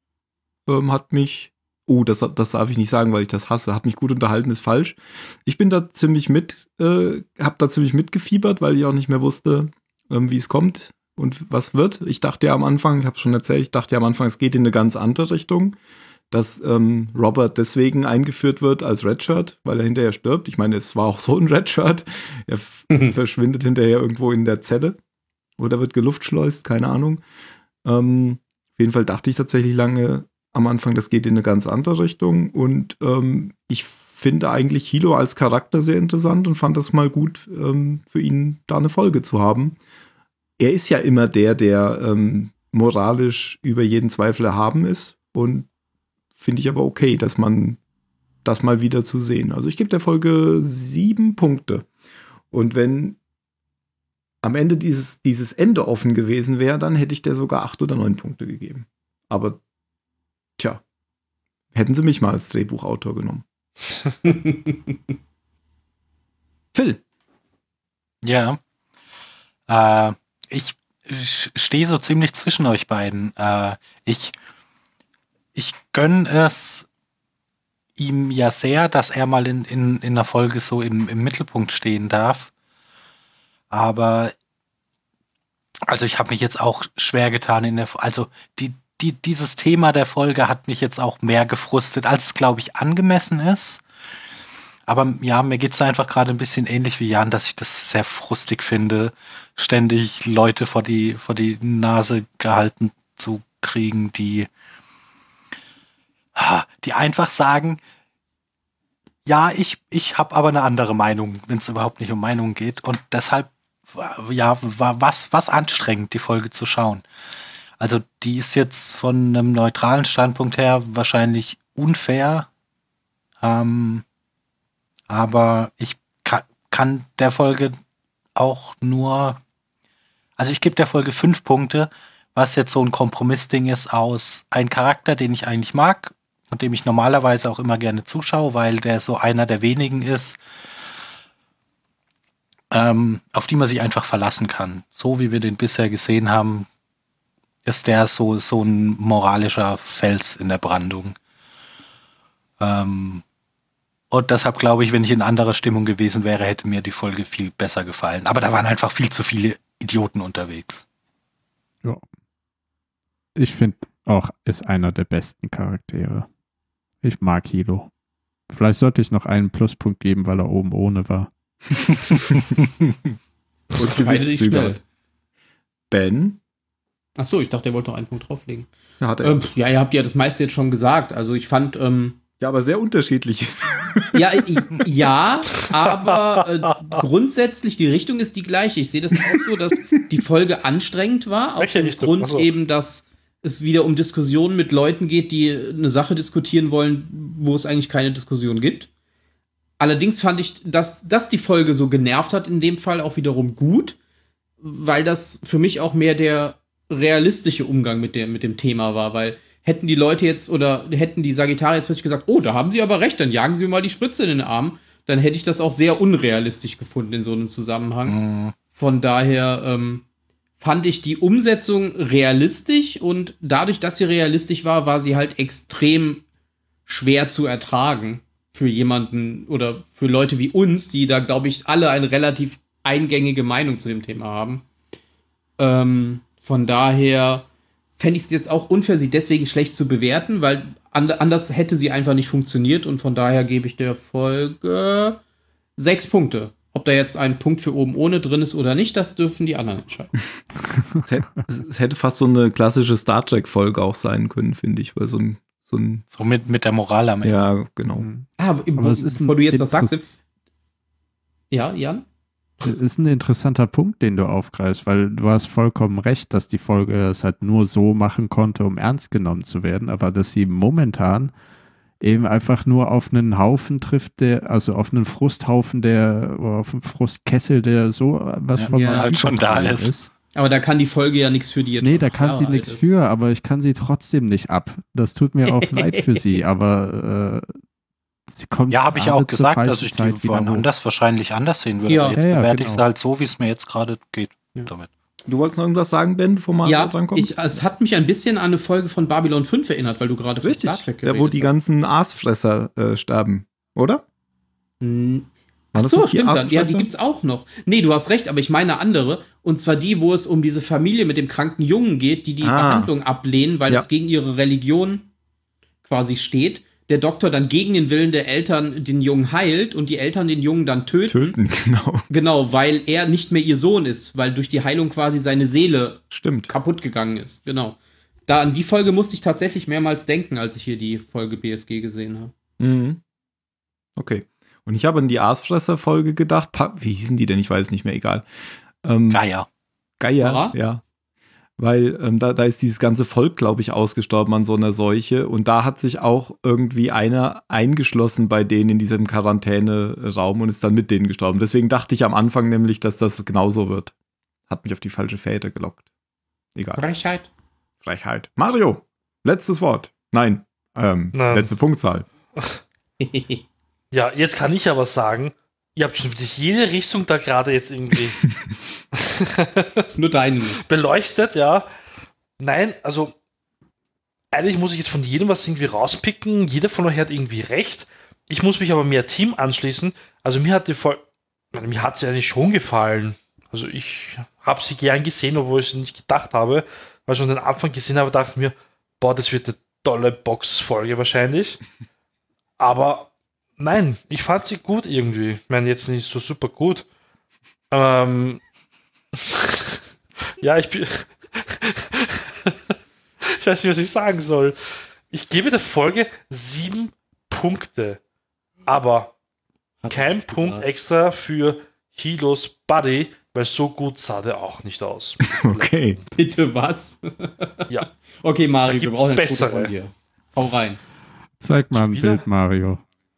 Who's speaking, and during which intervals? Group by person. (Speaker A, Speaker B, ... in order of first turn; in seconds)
Speaker A: 0.7-15.8, 16.3-25.0, 25.6-27.2, 27.9-39.8, 40.6-45.7, 46.4-47.8, 48.5-51.9, 52.5-53.2, 54.4-59.6, 61.7-63.4, 66.8-67.0, 173.7-174.8, 175.9-176.4, 179.0-179.5, 182.4-184.4, 251.1-256.0, 257.2-258.1, 295.3-297.6, 300.4-304.0, 305.8-306.9, 312.4-312.9, 321.1-322.1, 326.1-326.5, 332.6-333.0, 334.0-338.3, 338.8-339.2, 340.0-340.8, 341.6-353.9, 354.5-355.8, 356.6-356.9, 357.8-362.1, 415.3-416.0
Speaker B: 22.9-23.2, 64.2-64.9, 173.7-174.8, 177.2-178.7, 179.2-182.2, 184.2-198.9, 199.8-204.0, 204.6-218.2, 218.8-220.0, 220.6-226.2, 226.9-234.7, 235.6-245.2, 245.8-250.1, 258.4-260.1, 261.5-262.1, 278.8-279.1, 280.3-282.9, 285.5-286.2, 291.9-292.2, 296.6-301.5, 304.8-315.1, 315.9-321.4, 322.1-332.3, 340.2-340.5, 356.8-357.3, 363.0-363.4, 370.0-370.6, 409.8-410.7, 416.1-420.8
Speaker C: 68.2-68.6, 69.7-74.3, 75.5-76.9, 78.0-82.5, 83.7-84.3, 85.9-93.8, 94.9-104.5, 106.4-107.8, 109.3-117.0, 117.8-122.5, 123.4-124.0, 125.1-127.8, 128.4-129.4, 130.4-140.4, 142.7-146.7, 147.7-151.2, 152.6-153.2, 154.1-160.8, 218.1-218.5, 256.1-257.4, 278.6-279.9, 288.7-294.9, 339.1-339.5
Speaker D: 163.4-166.3, 167.0-167.9, 168.5-171.3, 258.0-260.2, 262.6-271.3, 272.0-280.1, 281.8-287.5, 288.3-290.7, 292.2-292.9, 421.4-422.8
Speaker E: 191.6-192.5, 361.1-361.5, 363.9-368.2, 369.0-369.9, 370.6-371.7, 372.4-373.1, 374.3-381.0, 381.5-391.6, 392.6-396.9, 397.7-398.4, 399.3-399.8, 400.4-402.5, 403.2-404.6, 405.1-408.0, 408.7-409.1, 409.9-415.8, 418.7-419.7, 421.7-422.2